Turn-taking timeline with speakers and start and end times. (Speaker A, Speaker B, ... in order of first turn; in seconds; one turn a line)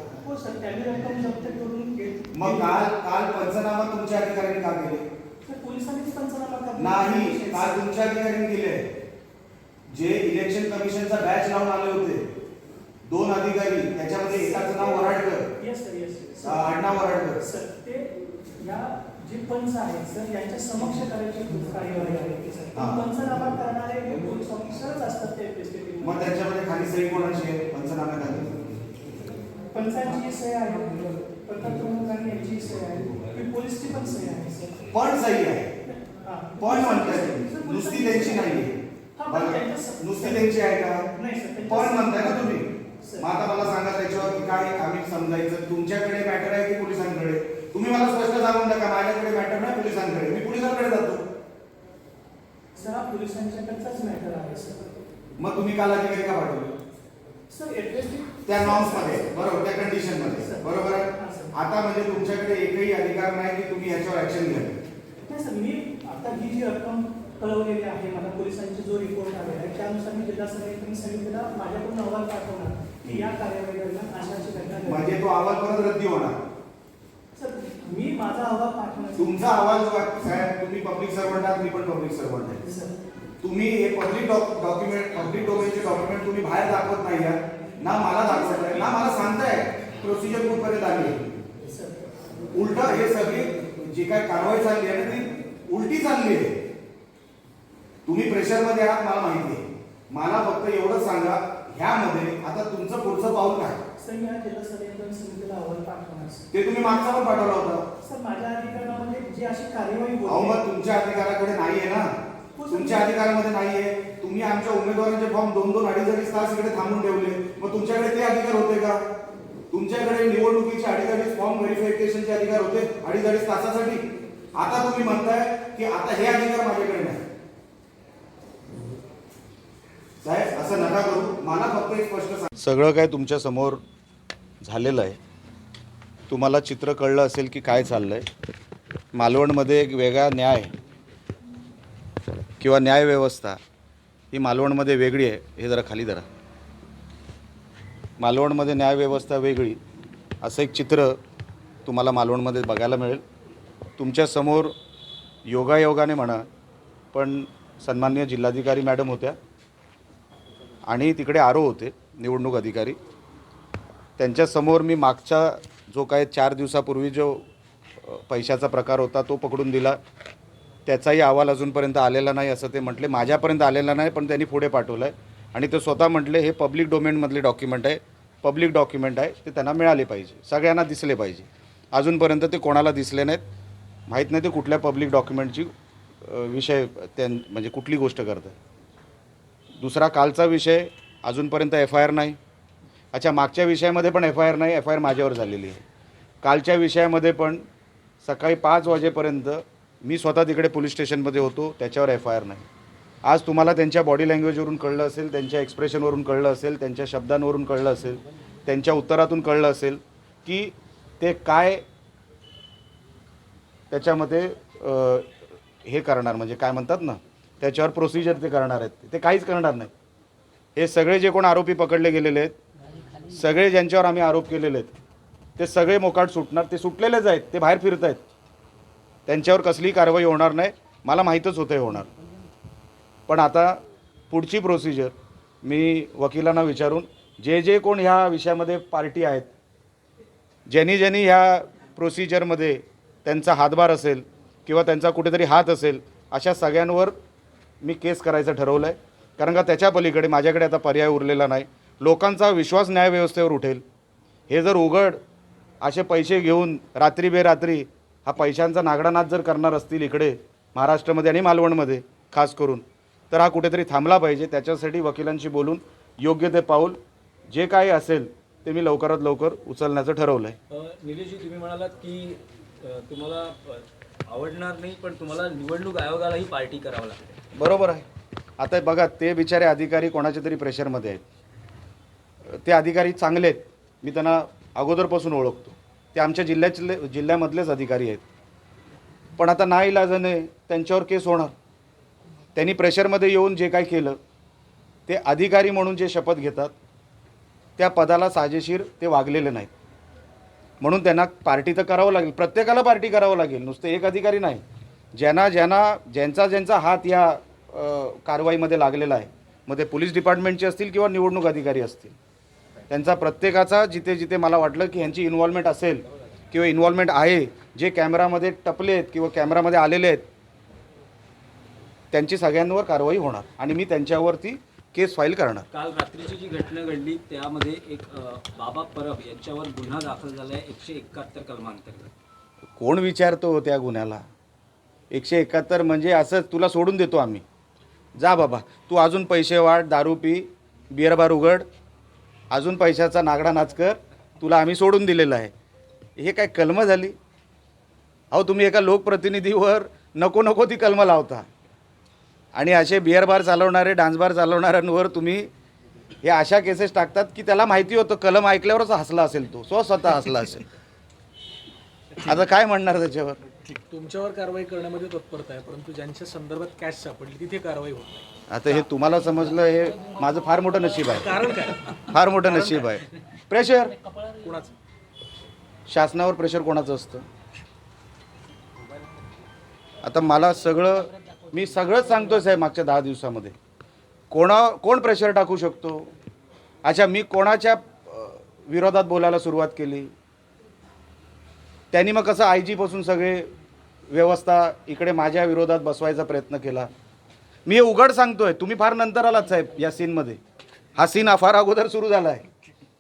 Speaker A: 0.2-2.9
Speaker B: 2.3-5.1
Speaker A: 5.4-7.9
Speaker B: 6.8-8.9
Speaker B: 9.9-12.2
Speaker B: 13.1-15.5
Speaker A: 14.4-26.4
Speaker B: 16.4-17.4
Speaker B: 22.8-23.0
Speaker B: 26.0-28.5
Speaker A: 29.7-34.9
Speaker B: 34.9-35.7
Speaker A: 35.8-38.6
Speaker B: 36.6-41.1
Speaker A: 39.1-43.3
Speaker B: 41.7-51.2
Speaker A: 52.8-54.9
Speaker B: 55.4-56.8
Speaker A: 57.5-61.5
Speaker B: 58.5-64.8
Speaker A: 65.3-75.2
Speaker B: 73.0-73.3
Speaker B: 74.9-76.4
Speaker A: 77.3-79.6
Speaker B: 79.2-82.6
Speaker A: 82.6-83.0
Speaker B: 83.4-91.2
Speaker A: 88.3-88.9
Speaker A: 91.6-92.0
Speaker B: 92.5-96.5
Speaker B: 98.0-103.8
Speaker A: 104.0-106.5
Speaker B: 106.5-107.9
Speaker A: 108.0-110.6
Speaker B: 110.3-112.1
Speaker A: 112.5-113.1
Speaker B: 112.7-119.0
Speaker B: 119.7-127.2
Speaker B: 130.2-133.8
Speaker B: 134.6-135.2
Speaker B: 136.3-138.3
Speaker B: 139.1-140.7
Speaker B: 142.6-143.6
Speaker B: 144.3-146.2
Speaker B: 148.2-149.8
Speaker B: 150.4-151.2
Speaker B: 151.8-153.2
Speaker B: 154.0-154.7
Speaker B: 155.5-156.4
Speaker B: 157.1-159.4
Speaker B: 160.9-163.0
Speaker B: 164.2-167.4
Speaker B: 168.0-170.0
Speaker B: 170.9-183.4
Speaker B: 184.1-185.7
Speaker B: 186.2-188.6
Speaker B: 189.8-192.4
Speaker B: 193.1-195.8
Speaker B: 196.4-197.6
Speaker B: 198.2-202.7
Speaker B: 203.2-211.8
Speaker B: 213.9-219.9
Speaker B: 220.8-222.6
Speaker B: 223.3-224.9
Speaker B: 225.6-228.2
Speaker B: 229.3-232.1
Speaker B: 233.3-239.5
Speaker B: 240.7-247.2
Speaker B: 247.8-253.8
Speaker B: 254.5-255.2
Speaker B: 255.8-267.0
Speaker B: 267.5-270.6
Speaker C: 270.7-277.4
Speaker B: 277.6-278.1
Speaker B: 278.6-281.2
Speaker B: 282.5-288.2
Speaker B: 289.4-291.5
Speaker B: 292.6-294.2
Speaker B: 295.1-296.8
Speaker B: 297.8-299.7
Speaker B: 300.8-304.6
Speaker B: 305.1-312.1
Speaker B: 312.9-320.2
Speaker B: 322.1-325.7
Speaker C: 325.7-332.1
Speaker B: 332.8-334.2
Speaker B: 335.1-337.4
Speaker B: 338.2-341.7
Speaker B: 342.5-345.5
Speaker B: 346.2-347.2
Speaker B: 348.3-351.5
Speaker B: 352.5-355.5
Speaker B: 356.2-360.6
Speaker B: 362.2-363.4
Speaker D: 363.9-368.2
Speaker B: 368.5-374.0
Speaker D: 371.4-371.7
Speaker D: 374.4-374.7
Speaker B: 375.9-377.2
Speaker B: 380.0-383.6
Speaker B: 384.3-386.1
Speaker B: 386.8-390.1
Speaker B: 391.9-393.5
Speaker B: 394.1-396.9
Speaker B: 397.7-400.4
Speaker B: 401.0-402.4